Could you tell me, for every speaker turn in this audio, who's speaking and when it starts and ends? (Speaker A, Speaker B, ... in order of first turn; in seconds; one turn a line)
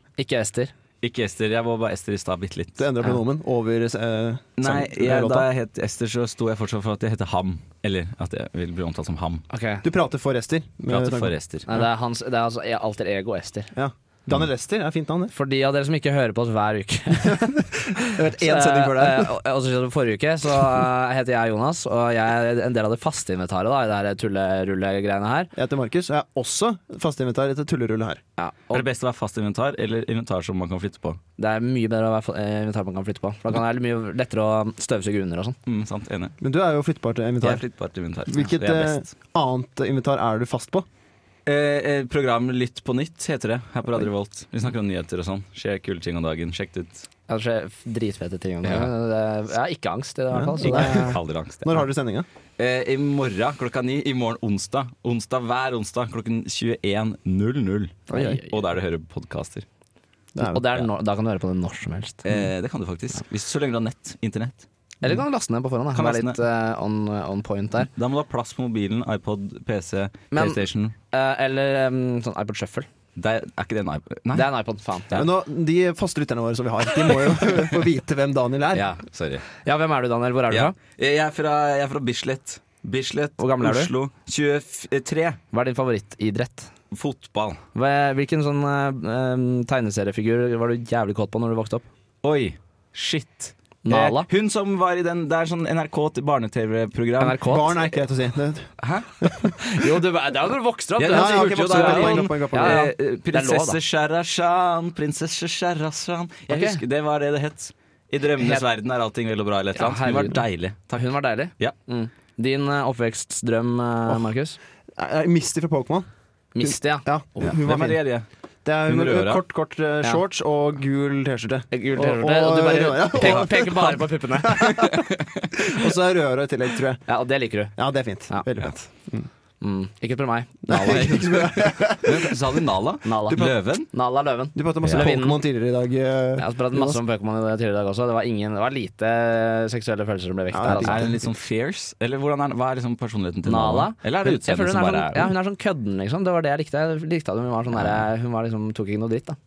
Speaker A: 0.2-0.7
Speaker B: 1.0-2.8
Speaker C: 2.8-5.5
Speaker B: 4.6-9.4
Speaker A: 9.5-9.8
Speaker C: 9.8-11.3
Speaker B: 10.9-11.7
Speaker A: 11.7-13.7
Speaker C: 13.7-15.3
Speaker A: 15.3-25.5
Speaker C: 17.2-19.3
Speaker C: 25.5-28.2
Speaker A: 28.4-28.8
Speaker B: 28.7-31.2
Speaker A: 31.4-35.6
Speaker B: 35.7-36.4
Speaker C: 36.4-37.6
Speaker B: 37.4-39.1
Speaker C: 38.3-40.9
Speaker B: 41.5-47.1
Speaker A: 47.3-51.1
Speaker B: 48.6-48.9
Speaker C: 50.3-52.3
Speaker B: 50.6-51.9
Speaker B: 52.6-59.7
Speaker A: 58.1-58.6
Speaker C: 58.1-58.4
Speaker C: 60.4-60.8
Speaker A: 60.4-62.3
Speaker B: 62.2-64.7
Speaker A: 65.0-67.9
Speaker B: 65.9-66.4
Speaker B: 67.9-71.0
Speaker A: 70.3-70.6
Speaker A: 71.1-72.9
Speaker B: 73.2-74.5
Speaker A: 74.3-75.1
Speaker C: 75.1-78.9
Speaker B: 78.7-79.5
Speaker A: 79.6-80.8
Speaker B: 80.5-85.4
Speaker A: 83.4-83.9
Speaker A: 85.5-86.7
Speaker B: 86.9-87.6
Speaker A: 87.8-91.9
Speaker B: 92.2-97.4
Speaker A: 93.8-94.3
Speaker A: 97.2-97.8
Speaker C: 97.4-99.5
Speaker B: 98.8-99.1
Speaker A: 99.6-103.8
Speaker B: 101.0-111.8
Speaker C: 101.1-102.9
Speaker A: 106.5-106.8
Speaker A: 108.4-108.7
Speaker A: 109.8-110.4
Speaker A: 110.9-114.6
Speaker C: 115.0-116.1
Speaker A: 116.5-117.1
Speaker C: 116.6-118.0
Speaker B: 117.4-118.3
Speaker C: 118.7-127.0
Speaker B: 118.9-119.4
Speaker A: 121.7-124.8
Speaker B: 123.2-123.5
Speaker B: 124.8-125.5
Speaker A: 127.1-127.7
Speaker C: 127.8-129.3
Speaker A: 129.6-131.3
Speaker C: 130.7-132.3
Speaker B: 130.9-133.9
Speaker A: 133.0-135.4
Speaker C: 134.6-137.0
Speaker A: 136.4-141.1
Speaker C: 140.5-141.2
Speaker B: 140.7-145.3
Speaker A: 143.5-149.4
Speaker B: 147.7-148.1